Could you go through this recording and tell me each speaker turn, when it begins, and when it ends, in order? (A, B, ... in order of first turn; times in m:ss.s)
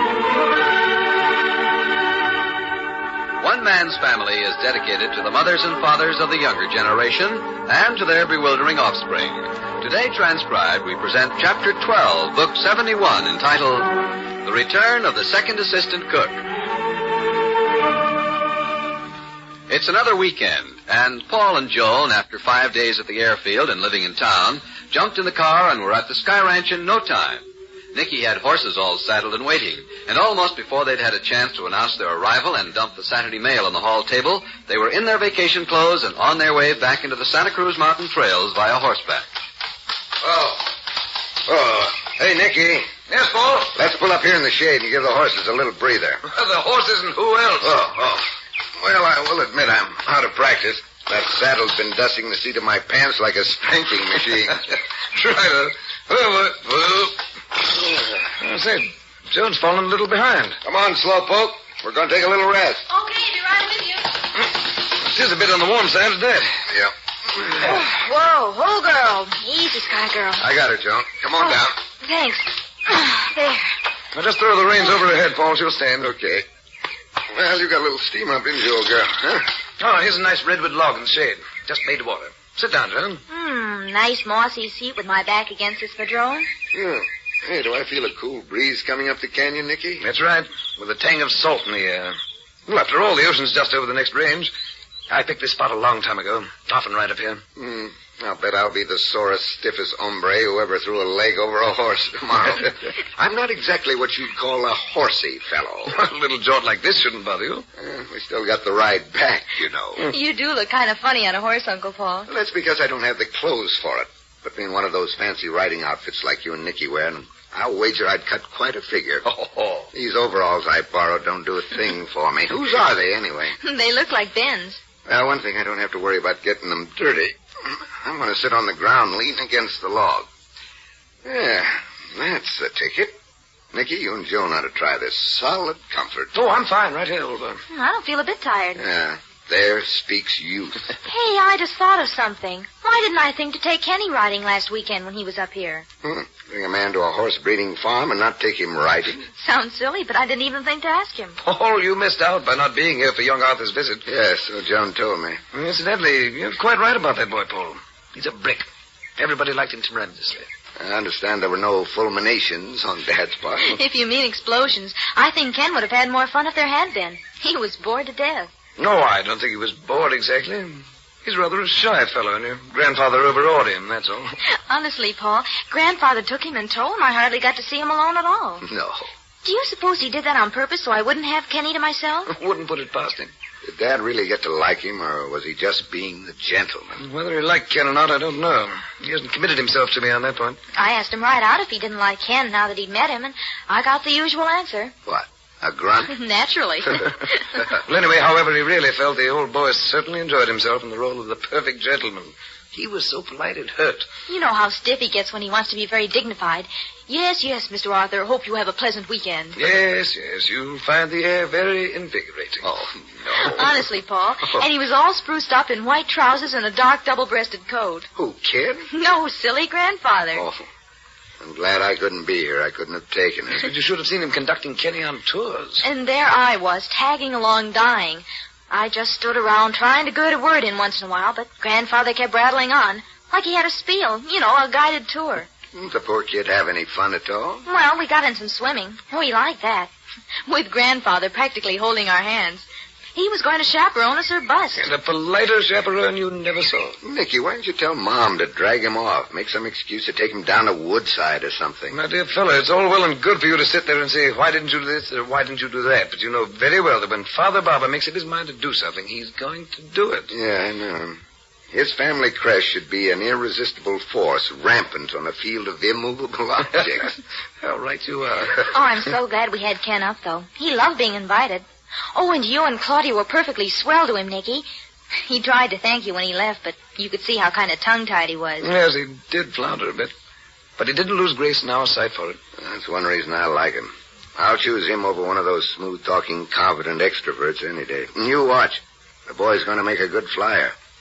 0:03.4-0:16.4 A
0:19.7-0:39.3 A
0:40.2-0:40.7 B
0:41.4-0:42.9 B
0:43.1-0:43.7 C
0:43.7-0:46.2 B
0:46.2-0:48.0 C
0:47.6-0:48.2 B
0:48.8-0:54.6 B
0:55.1-0:57.2 C
0:58.2-1:00.6 C
1:00.6-1:02.9 B
1:02.9-1:04.1 D
1:04.3-1:06.6 C
1:07.6-1:10.4 D
1:10.4-1:11.8 B
1:11.4-1:13.6 D
1:14.1-1:16.1 C
1:16.0-1:16.4 B
1:17.3-1:19.5 B
1:19.8-1:23.2 C
1:23.3-1:26.5 D
1:26.7-1:30.0 B
1:30.0-1:32.2 C
1:32.7-1:34.5 C
1:35.1-1:37.4 C
1:37.6-1:45.9 B
1:45.9-1:47.6 C
1:47.8-1:50.1 B
1:50.0-1:52.3 D
1:52.3-1:59.2 B
1:59.2-1:59.9 C
1:59.9-2:03.5 B
2:03.6-2:04.8 D
2:05.0-2:10.3 B
2:11.2-2:13.1 B
2:13.7-2:16.3 B
2:16.3-2:17.6 C
2:17.7-2:18.8 D
2:18.8-2:20.9 B
2:21.0-2:25.8 D
2:26.0-2:29.3 B
2:29.4-2:31.4 D
2:31.4-2:34.0 C
2:34.0-2:35.4 B
2:35.5-2:40.5 C
2:40.8-2:43.8 B
2:43.6-2:48.5 D
2:48.8-2:54.4 C
2:54.7-2:58.7 D
2:58.6-2:59.1 B
2:59.4-3:02.3 D
3:02.3-3:03.3 C
3:03.6-3:07.0 B
3:07.0-3:10.6 C
3:10.7-3:14.9 D
3:15.0-3:16.1 B
3:16.1-3:17.3 D
3:17.8-3:24.1 C
3:24.3-3:29.6 D
3:29.6-3:32.7 C
3:32.6-3:33.7 B
3:33.3-3:38.1 D
3:38.2-3:38.8 B
3:38.3-3:38.6 C
3:38.9-3:40.4 D
3:40.4-3:40.6 B
3:41.4-3:43.7 B
3:43.6-3:45.8 C
3:45.8-3:55.5 D
3:55.7-3:57.6 B
3:57.6-3:59.9 D
4:00.5-4:04.9 D
4:04.8-4:07.0 C
4:07.0-4:12.0 B
4:11.9-4:20.3 C
4:20.3-4:21.2 B
4:21.7-4:27.1 B
4:27.6-4:28.7 C
4:28.6-4:34.6 D
4:35.2-4:38.7 D
4:38.6-4:40.1 C
4:40.8-4:42.4 C
4:42.6-4:50.7 B